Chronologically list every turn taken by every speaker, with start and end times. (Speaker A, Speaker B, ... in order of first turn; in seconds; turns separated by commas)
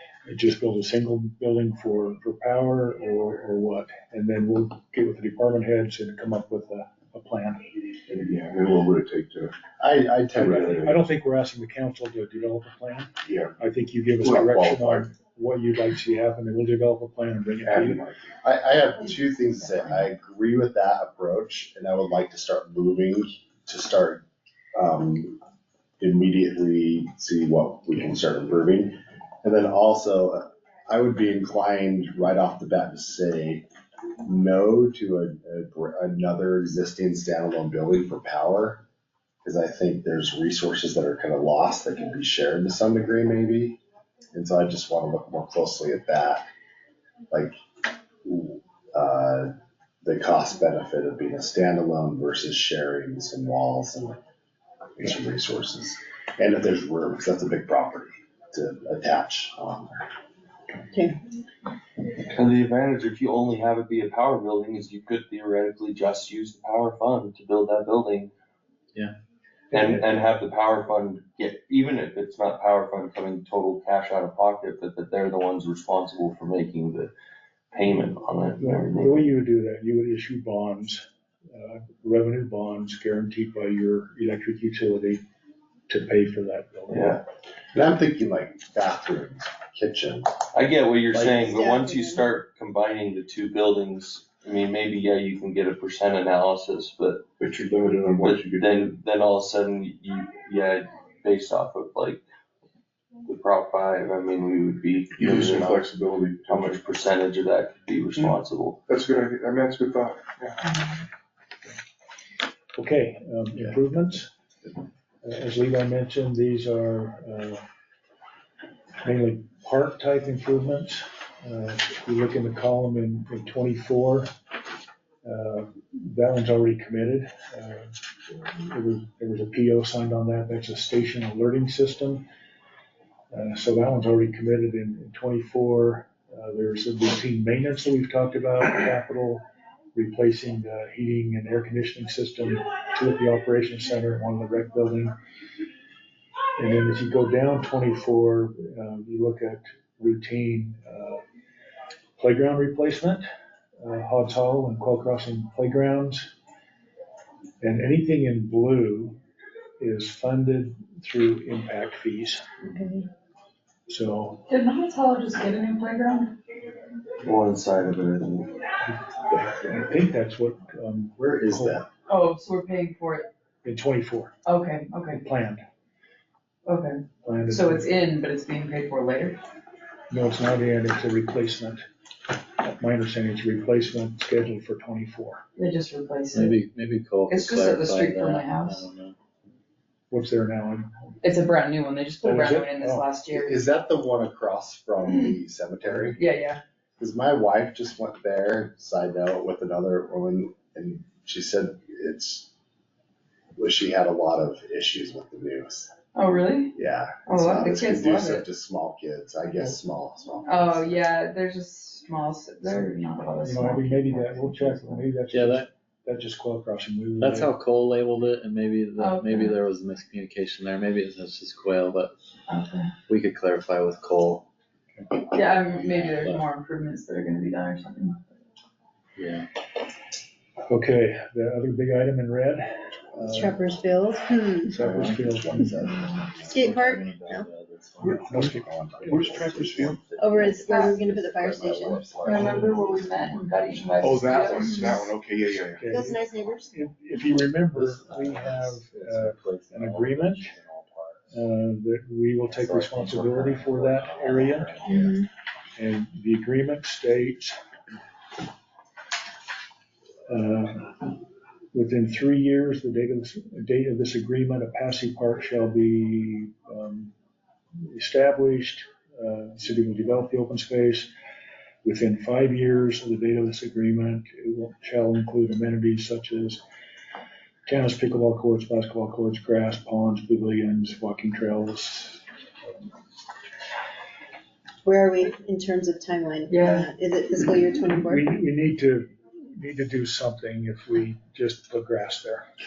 Speaker A: 0.3-7.6, Speaker B: 8.1-9.5, Speaker C: 9.8-10.9, Speaker B: 10.3-11.0, Speaker A: 10.8-18.0, Speaker B: 13.2-13.6, Speaker B: 14.2-15.1, Speaker C: 17.6-24.2, Speaker C: 24.7-25.4, Speaker C: 26.0-33.7, Speaker C: 34.2-38.8, Speaker C: 39.4-43.8, Speaker C: 44.3-46.5, Speaker C: 47.3-47.6, Speaker C: 48.2-49.5, Speaker C: 50.0-54.2, Speaker C: 55.0-60.1, Speaker D: 62.3-68.3, Speaker D: 69.7-77.1, Speaker A: 69.7-70.0, Speaker D: 77.7-79.3, Speaker A: 78.6-85.2, Speaker A: 85.9-87.2, Speaker D: 86.9-87.2, Speaker C: 87.7-90.3, Speaker D: 90.5-97.2, Speaker E: 91.2-92.3, Speaker B: 97.4-98.7, Speaker D: 98.2-102.2, Speaker D: 103.2-105.8, Speaker B: 105.2-106.8, Speaker D: 106.5-108.8, Speaker B: 108.9-110.5, Speaker A: 112.8-114.3, Speaker A: 115.2-117.6, Speaker A: 119.0-124.3, Speaker A: 125.2-127.9, Speaker A: 128.4-132.2, Speaker A: 133.3-139.4, Speaker A: 139.9-145.1, Speaker A: 146.6-151.2, Speaker A: 152.2-153.2, Speaker A: 153.8-156.3, Speaker A: 157.6-159.2, Speaker A: 159.8-162.4, Speaker A: 163.9-164.4, Speaker F: 164.5-166.3, Speaker D: 167.2-168.5, Speaker A: 169.3-171.8, Speaker C: 171.2-171.9, Speaker F: 172.1-173.3, Speaker A: 173.6-174.3, Speaker F: 174.4-175.2, Speaker A: 175.1-175.6, Speaker F: 176.6-179.4, Speaker A: 177.2-177.9, Speaker A: 180.1-181.8, Speaker A: 182.6-185.4, Speaker F: 185.6-186.5, Speaker G: 186.3-189.2, Speaker F: 187.3-188.9, Speaker A: 190.1-190.9, Speaker F: 191.2-193.6, Speaker A: 192.2-193.1, Speaker C: 193.3-196.2, Speaker F: 196.0-196.6, Speaker C: 197.0-202.5, Speaker C: 203.6-205.9, Speaker F: 206.1-206.7, Speaker C: 206.7-211.0, Speaker F: 207.3-208.4, Speaker F: 210.4-215.1, Speaker A: 213.4-217.5, Speaker G: 215.3-215.7, Speaker G: 217.2-222.1, Speaker F: 219.0-219.6, Speaker F: 222.5-222.9, Speaker G: 223.1-224.4, Speaker F: 225.3-228.2, Speaker G: 225.4-226.4, Speaker G: 229.2-229.5, Speaker A: 230.7-233.6, Speaker C: 233.1-233.4, Speaker E: 233.3-234.8, Speaker A: 234.7-235.9, Speaker C: 234.7-236.7, Speaker G: 236.4-242.6, Speaker E: 236.5-237.4, Speaker A: 238.0-239.3, Speaker C: 238.1-240.0, Speaker B: 239.1-240.0, Speaker E: 240.2-242.2, Speaker C: 241.6-242.9, Speaker F: 242.2-245.1, Speaker D: 243.3-244.6, Speaker B: 244.0-245.9, Speaker E: 244.5-245.0, Speaker A: 245.8-250.5, Speaker E: 245.9-246.7, Speaker G: 247.7-251.2, Speaker A: 251.3-254.9, Speaker G: 252.4-254.9, Speaker E: 254.8-255.3, Speaker A: 255.8-257.6, Speaker A: 260.3-261.1, Speaker A: 261.7-267.1, Speaker A: 267.8-271.1, Speaker A: 271.8-276.6, Speaker A: 277.6-282.2, Speaker E: 284.8-288.3, Speaker F: 286.5-286.9, Speaker A: 288.0-292.4